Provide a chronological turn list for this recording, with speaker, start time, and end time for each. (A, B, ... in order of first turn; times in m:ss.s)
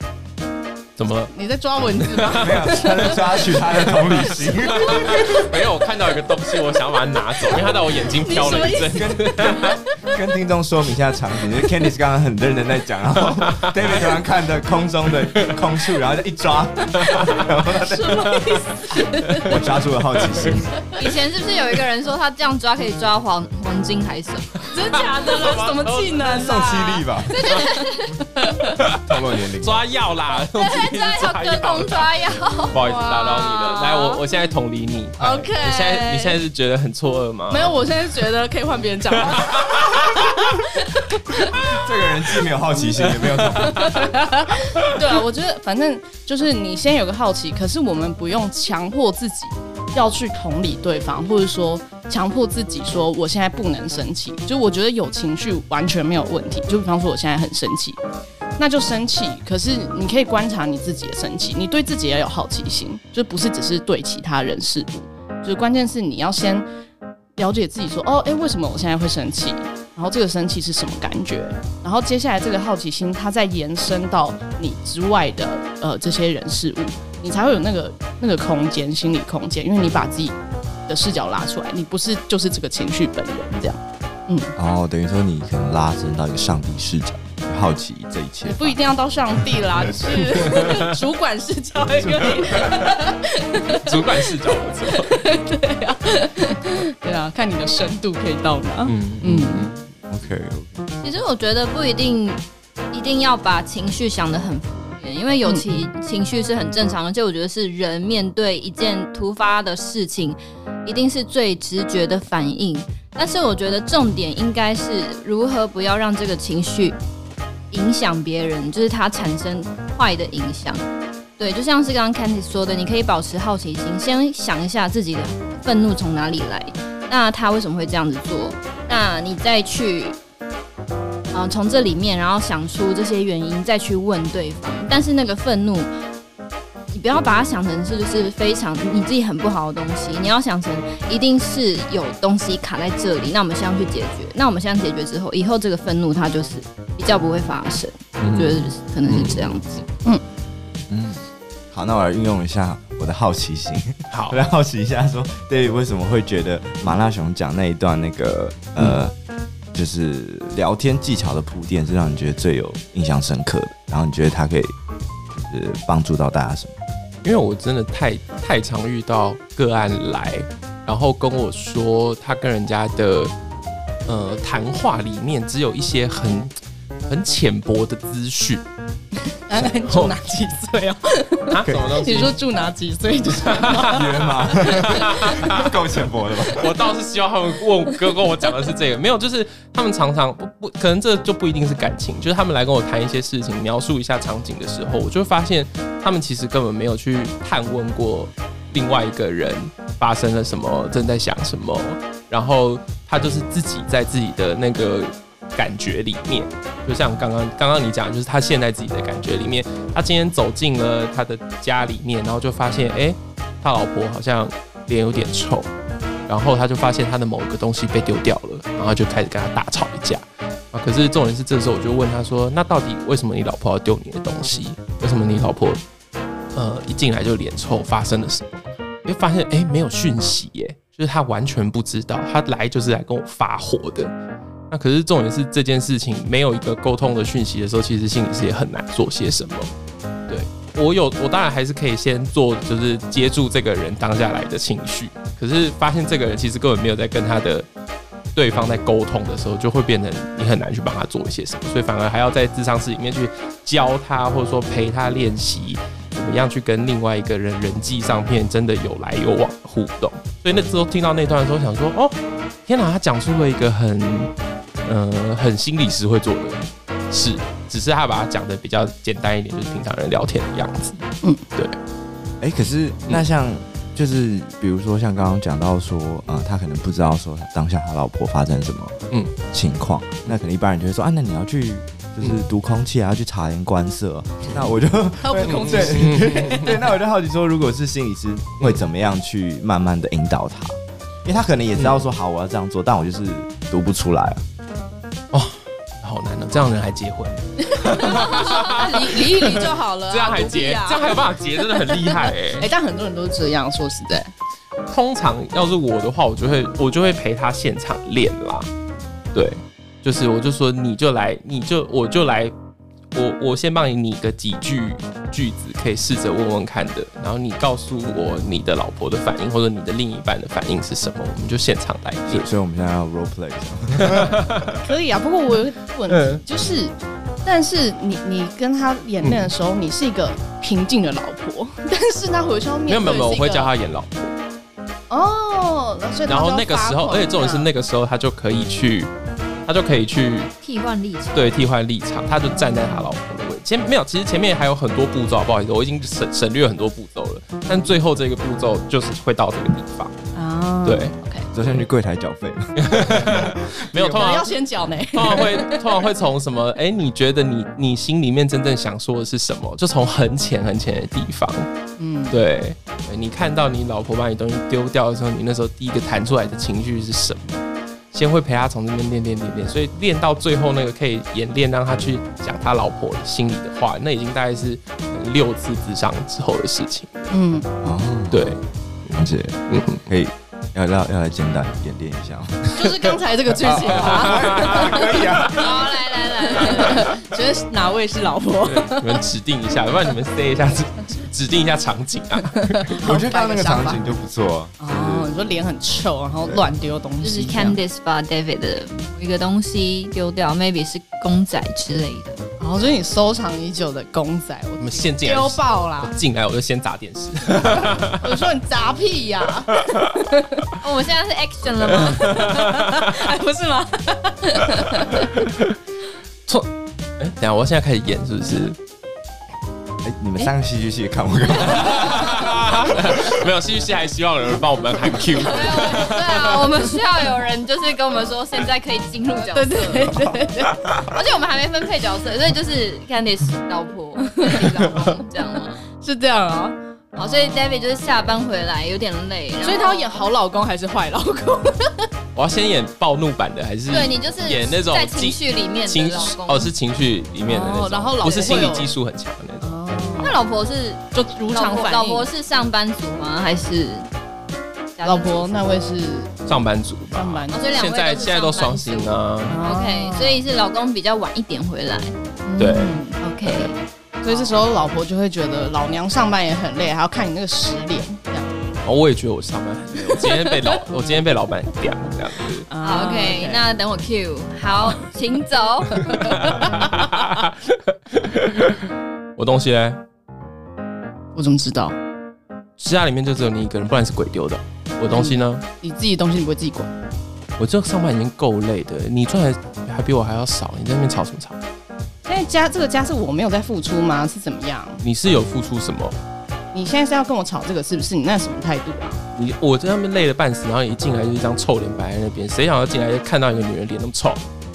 0:01.0-0:01.3 A
0:01.3-0:03.8 B
0:02.0-0:03.2 A
0:02.4-0:05.6 C
0:04.0-0:09.7 A
0:04.6-0:05.4 B
0:07.6-0:09.8 B
0:08.9-0:18.4 C
0:13.5-0:13.8 A
0:17.1-0:17.4 A
0:17.7-0:19.6 B
0:19.4-0:20.8 C
0:21.0-0:24.7 D
0:24.7-0:27.1 B
0:25.1-0:26.4 A
0:26.3-0:27.5 C
0:27.3-0:28.2 D
0:28.3-0:28.8 B
0:28.8-0:32.1 A
0:29.0-0:29.8 C
0:30.4-0:32.8 D
0:32.7-0:37.8 A
0:32.8-0:34.2 B
0:35.2-0:36.4 B
0:37.5-0:41.9 B
0:39.3-0:40.1 A
0:41.6-0:44.0 C
0:43.2-0:44.0 A
0:43.5-0:58.0 B
0:58.6-1:06.6 B
1:07.4-1:24.5 B
1:24.6-1:28.8 C
1:28.4-1:39.7 B
1:29.9-1:30.5 C
1:33.7-1:35.1 A
1:38.8-1:39.7 A
1:40.1-1:40.9 C
1:41.0-1:42.4 D
1:42.9-1:57.0 D
1:45.4-1:45.9 B
1:57.7-2:00.8 D
2:01.4-2:10.2 D
2:11.3-2:15.9 D
2:16.9-2:29.8 D
2:28.2-2:29.5 A
2:30.9-2:39.1 C
2:34.1-2:34.4 A
2:39.7-2:44.7 C
2:45.3-2:46.8 C
2:47.2-2:53.3 A
2:54.1-2:56.5 A
2:57.1-2:58.6 A
2:59.5-3:05.7 B
2:59.6-3:00.1 A
3:01.5-3:02.4 A
3:03.4-3:04.1 A
3:03.9-3:06.7 C
3:04.6-3:05.7 A
3:06.5-3:35.7 A
3:36.3-3:45.8 A
3:46.5-3:48.5 A
3:49.0-3:54.1 A
3:54.7-3:59.7 A
4:00.3-4:07.7 A
4:08.3-4:22.2 A
4:22.7-4:24.3 A
4:24.8-4:31.0 A
4:32.4-4:38.9 C
4:39.5-4:54.4 C
4:45.2-4:46.7 B
4:45.4-4:46.8 A
4:55.3-5:02.7 A
4:57.8-5:01.1 B
5:01.7-5:04.3 B
5:04.9-5:08.7 A
5:09.3-5:12.5 A
5:13.1-5:22.4 A
5:22.3-5:24.6 C
5:24.0-5:24.8 A
5:24.8-5:33.7 B
5:26.1-5:26.4 A
5:29.2-5:29.5 A
5:32.9-5:34.3 A
5:35.1-5:37.7 B
5:36.3-5:39.1 A
5:39.6-5:40.5 A
5:40.6-5:41.6 D
5:41.3-5:50.1 A
5:42.5-5:43.1 B
5:50.3-5:51.5 B
5:50.8-5:51.8 A
5:51.5-5:54.4 C
5:52.8-5:54.5 A
5:54.1-5:55.8 B
5:55.1-6:01.7 A
6:02.0-6:02.4 B
6:02.3-6:17.4 A
6:17.3-6:17.7 B
6:17.8-6:18.6 C
6:18.3-6:20.0 A
6:19.1-6:22.8 C
6:22.7-6:25.3 B
6:23.6-6:25.8 C
6:24.0-6:25.5 A
6:25.5-6:27.1 D
6:26.5-6:29.2 B
6:26.7-6:27.0 A
6:28.6-6:32.9 A
6:32.8-6:34.0 B
6:33.0-6:35.3 C
6:34.8-6:37.8 B
6:37.2-6:42.4 D
6:42.6-6:46.1 B
6:44.8-6:48.2 A
6:47.6-6:50.7 B
6:50.8-6:52.4 D
6:52.0-6:55.3 B
6:52.1-6:53.1 A
6:55.2-6:55.8 A
6:56.5-6:58.8 A
7:00.0-7:03.2 C
7:01.6-7:06.7 A
7:05.4-7:10.2 D
7:09.5-7:11.0 B
7:10.9-7:15.8 D
7:14.4-7:15.0 B
7:16.0-7:17.9 B
7:17.2-7:20.2 D
7:19.6-7:22.1 B
7:22.3-7:29.8 A
7:23.9-7:26.7 D
7:27.4-7:28.9 B
7:28.2-7:28.6 D
7:29.6-7:30.4 B
7:30.2-7:34.1 D
7:31.1-7:32.3 B
7:35.0-7:35.6 D
7:35.0-7:36.3 B
7:36.5-7:39.6 A
7:37.1-7:37.6 B
7:37.5-7:42.1 D
7:39.4-7:40.4 B
7:42.4-7:43.7 B
7:42.6-7:43.0 A
7:43.2-7:44.6 D
7:44.2-7:48.5 B
7:48.8-7:52.7 A
7:50.1-7:50.6 B
7:52.7-7:53.6 B
7:52.8-7:56.2 D
7:56.0-7:56.9 B
7:56.1-8:00.0 A
8:01.3-8:02.0 B
8:02.8-8:05.6 A
8:05.1-8:06.9 B
8:07.6-8:11.6 A
8:12.2-8:15.0 B
8:15.0-8:16.2 A
8:16.7-8:19.2 B
8:19.3-8:24.4 A